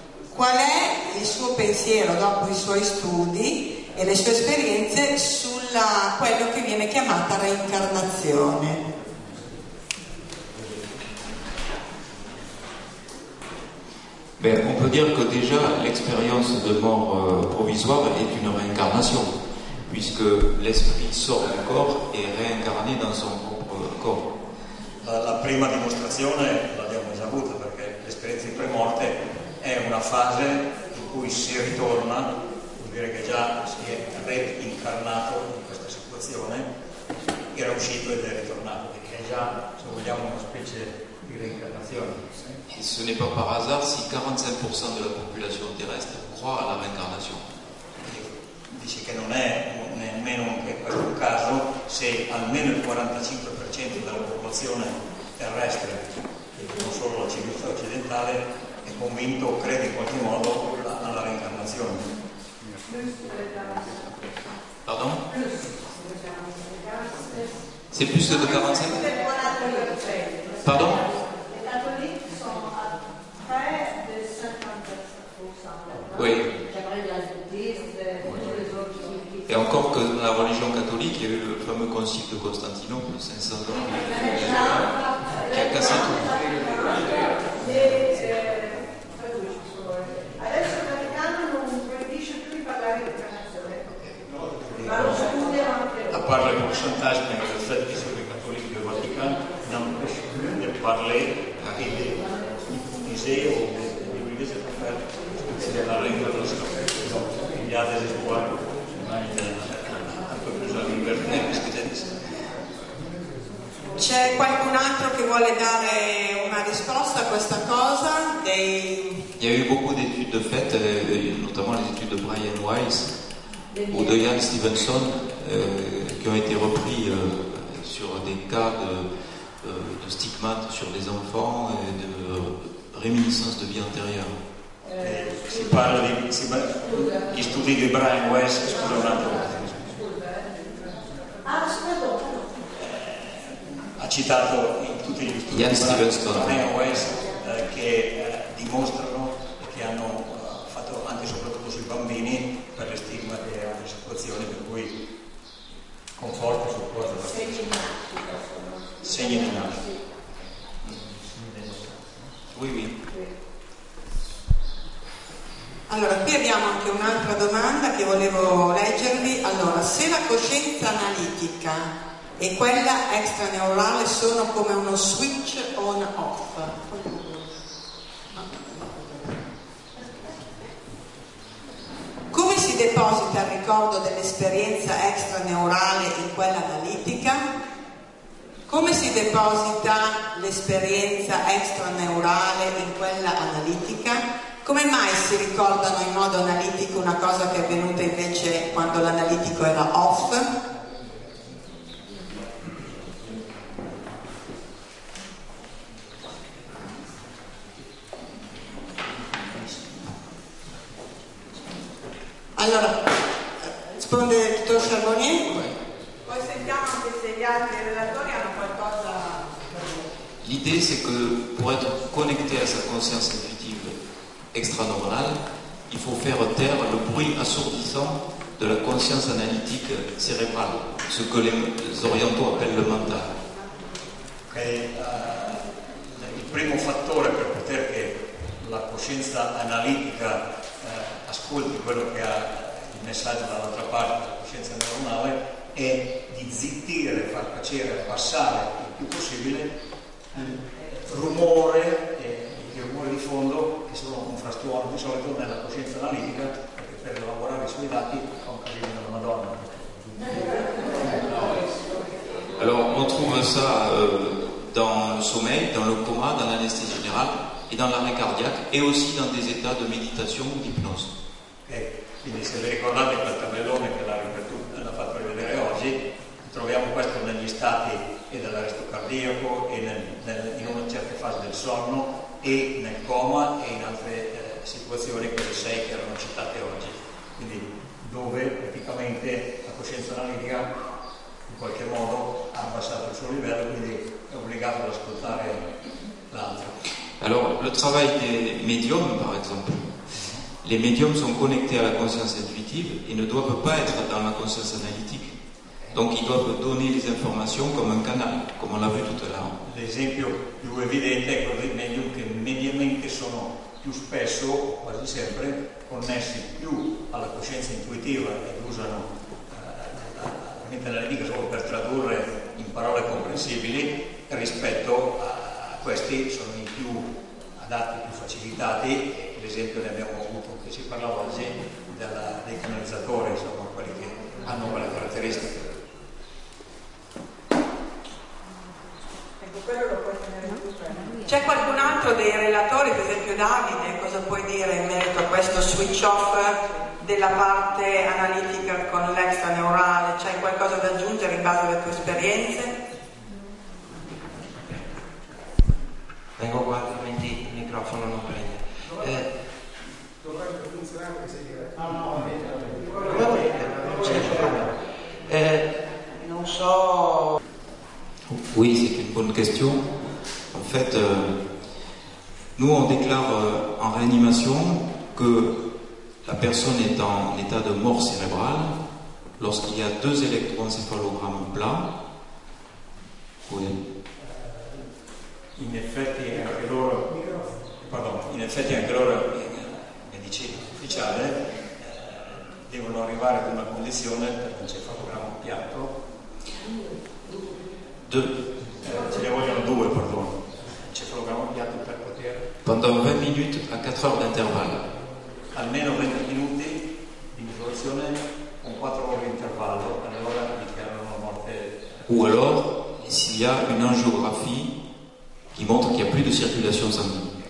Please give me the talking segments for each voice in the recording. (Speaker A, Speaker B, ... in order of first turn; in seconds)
Speaker A: 0.3-8.8, 114.0-119.2, 165.9-177.5, 182.3-187.4, 188.7-200.5, 212.6-213.1, 213.7-215.7, 216.2-219.4, 341.2-352.7
Speaker B: 14.4-19.4, 19.9-24.3, 42.7-47.4, 64.8-65.2, 67.9-69.0, 70.6-71.0, 76.1-76.5, 79.5-84.9, 85.4-86.3, 119.4-123.1, 123.9-129.1, 129.6-134.4, 145.5-146.7, 162.5-162.9, 220.4-224.0, 224.5-233.4, 262.6-271.1, 297.2-300.0, 300.6-305.4, 305.9-309.6, 368.3-369.8, 370.5-371.4, 372.6-375.6, 376.2-378.7, 379.4-381.9, 383.4-383.8, 398.0-398.3, 402.6-404.9, 412.1-414.7, 415.5-417.3
Speaker C: 25.0-36.7, 37.5-42.4, 48.0-62.0, 94.7-95.4, 96.1-112.1, 135.0-140.0, 142.8-154.9, 156.2-157.7, 159.0-159.8, 161.1-162.0, 234.5-249.7, 250.3-260.1, 271.7-290.7, 291.4-295.7, 296.3-296.8, 300.1-300.4, 309.6-335.7, 385.6-396.0, 398.8-402.5, 405.5-412.0
Speaker D: 62.8-64.2, 65.2-67.6, 68.2-79.7, 83.8-93.8, 94.9-96.2, 123.7-124.0, 141.4-142.6, 157.2-159.8, 339.4-341.2
Speaker E: 356.4-359.3, 363.0-367.4